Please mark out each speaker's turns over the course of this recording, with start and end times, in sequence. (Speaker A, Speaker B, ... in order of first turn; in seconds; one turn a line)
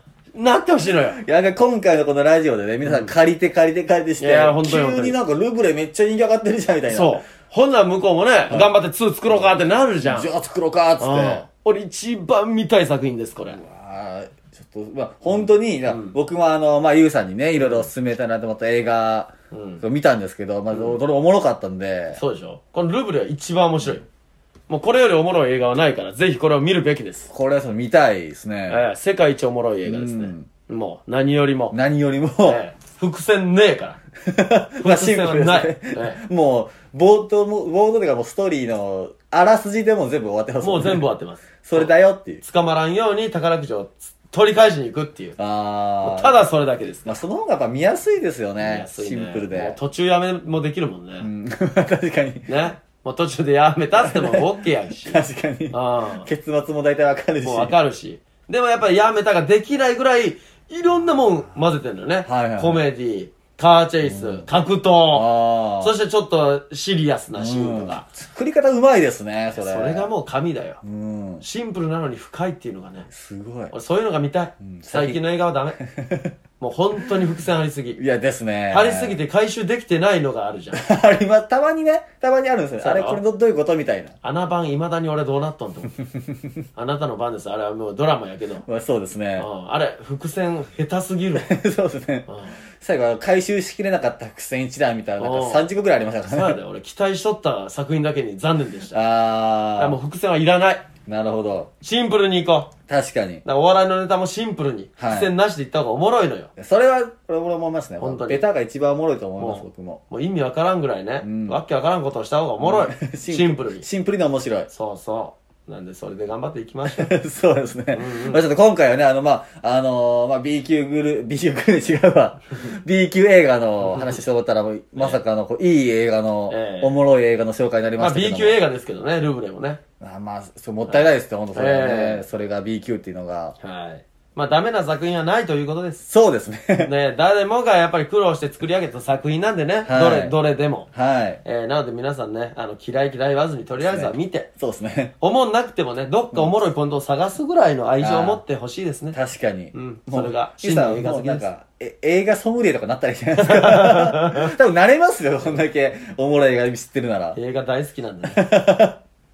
Speaker A: 0.3-1.2
Speaker B: 1.1-7.2
Speaker A: 2.8-3.1
Speaker A: 4.2-5.2
Speaker A: 6.9-10.3
Speaker B: 9.3-11.4
Speaker A: 11.0-13.6
Speaker B: 13.5-22.2
Speaker A: 15.9-16.1
Speaker A: 17.6-17.9
Speaker A: 19.5-19.8
Speaker A: 20.7-21.0
Speaker A: 22.1-24.0
Speaker A: 24.7-27.3
Speaker B: 27.3-28.8
Speaker A: 28.7-31.8
Speaker B: 29.8-30.5
Speaker B: 31.7-32.6
Speaker A: 32.4-34.0
Speaker B: 34.2-41.0
Speaker A: 34.8-36.2
Speaker A: 40.6-45.4
Speaker B: 41.6-42.4
Speaker B: 45.4-46.4
Speaker A: 46.0-47.2
Speaker B: 47.0-49.8
Speaker A: 48.6-51.3
Speaker B: 51.2-52.5
Speaker A: 52.5-56.3
Speaker B: 54.0-54.5
Speaker B: 55.0-57.8
Speaker A: 57.4-65.3
Speaker B: 62.2-62.9
Speaker B: 64.0-64.5
Speaker B: 65.1-65.9
Speaker A: 65.8-68.0
Speaker B: 67.3-70.1
Speaker A: 69.5-70.8
Speaker B: 70.8-71.4
Speaker A: 71.4-73.1
Speaker B: 73.1-73.7
Speaker A: 73.7-75.8
Speaker B: 74.6-75.2
Speaker B: 75.8-76.3
Speaker A: 76.6-78.0
Speaker B: 78.0-79.2
Speaker A: 78.7-80.8
Speaker B: 80.7-84.1
Speaker A: 82.8-83.2
Speaker A: 84.2-86.0
Speaker A: 86.7-88.7
Speaker B: 88.7-89.5
Speaker A: 89.4-91.5
Speaker B: 91.3-92.3
Speaker A: 92.3-92.6
Speaker B: 92.8-96.6
Speaker A: 95.2-95.7
Speaker A: 96.3-99.0
Speaker B: 98.9-100.0
Speaker A: 99.8-100.9
Speaker B: 101.1-101.7
Speaker A: 101.8-102.7
Speaker B: 102.9-103.4
Speaker A: 103.4-106.5
Speaker B: 105.0-105.3
Speaker B: 106.6-110.0
Speaker A: 108.0-108.4
Speaker A: 109.4-113.8
Speaker B: 111.2-111.6
Speaker B: 112.6-114.7
Speaker A: 114.7-117.2
Speaker B: 116.9-128.6
Speaker A: 117.9-118.4
Speaker A: 123.8-124.2
Speaker A: 126.5-127.0
Speaker A: 128.0-129.8
Speaker B: 130.0-133.6
Speaker A: 130.9-132.2
Speaker A: 133.6-136.0
Speaker B: 136.0-136.9
Speaker A: 136.8-140.9
Speaker B: 139.9-140.3
Speaker B: 140.9-141.4
Speaker A: 141.4-144.5
Speaker B: 143.8-145.1
Speaker A: 145.2-149.2
Speaker B: 148.0-148.4
Speaker B: 149.1-157.4
Speaker A: 149.7-151.5
Speaker A: 153.4-154.5
Speaker A: 157.3-158.4
Speaker B: 158.2-159.0